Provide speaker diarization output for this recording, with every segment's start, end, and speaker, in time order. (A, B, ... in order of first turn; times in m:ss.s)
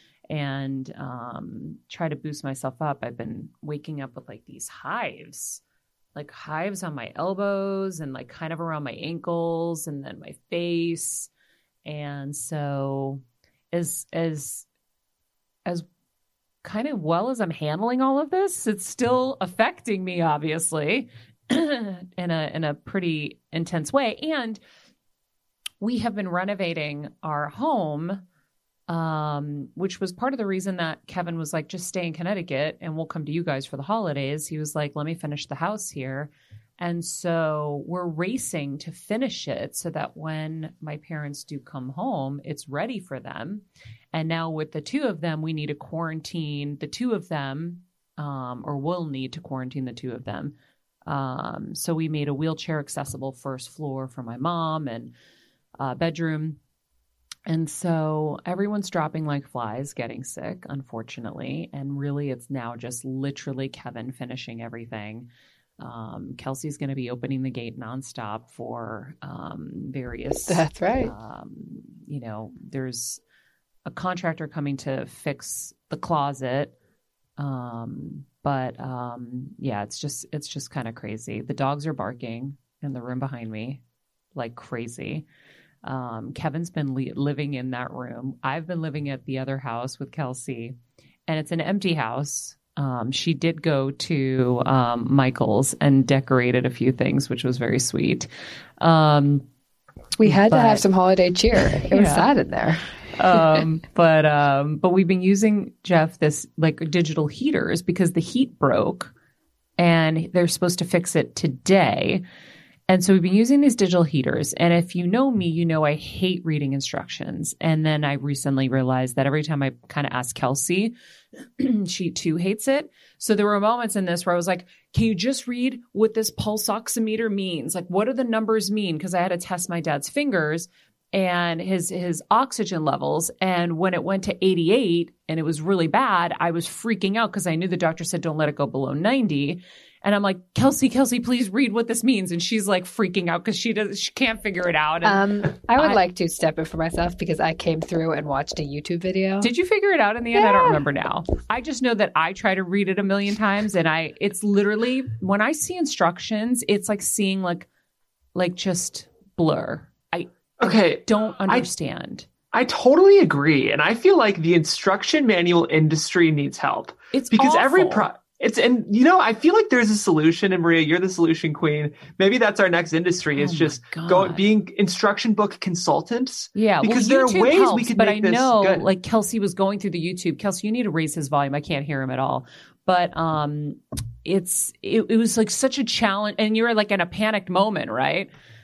0:00.3-0:05.6 A
0:06.1-0:11.3 A
0:11.8-0:14.6 A
0:16.6-0:24.6 A
0:25.8-0:28.2 A
0:28.9-0:50.5 A
0:51.1-0:55.1 A
0:55.8-0:56.6 A
0:57.5-1:05.3 A
1:05.8-1:13.2 A
1:10.5-1:11.1 B
1:13.8-1:16.7 A
1:17.4-1:23.8 A
1:24.4-1:25.2 A
1:25.8-1:30.8 A
1:31.3-1:38.3 A
1:38.8-1:39.4 A
1:40.2-1:43.6 B
1:40.2-1:40.8 A
1:41.6-1:42.3 A
1:43.1-1:49.1 A
1:49.8-1:52.2 A
1:52.9-2:00.9 A
2:01.6-2:26.0 A
2:25.0-2:29.5 B
2:29.4-2:37.7 A
2:30.3-2:30.8 B
2:38.3-2:42.3 A
2:40.6-2:41.7 C
2:42.5-2:58.8 C
2:47.1-2:48.1 A
2:53.4-2:54.4 A
2:56.5-3:08.3 A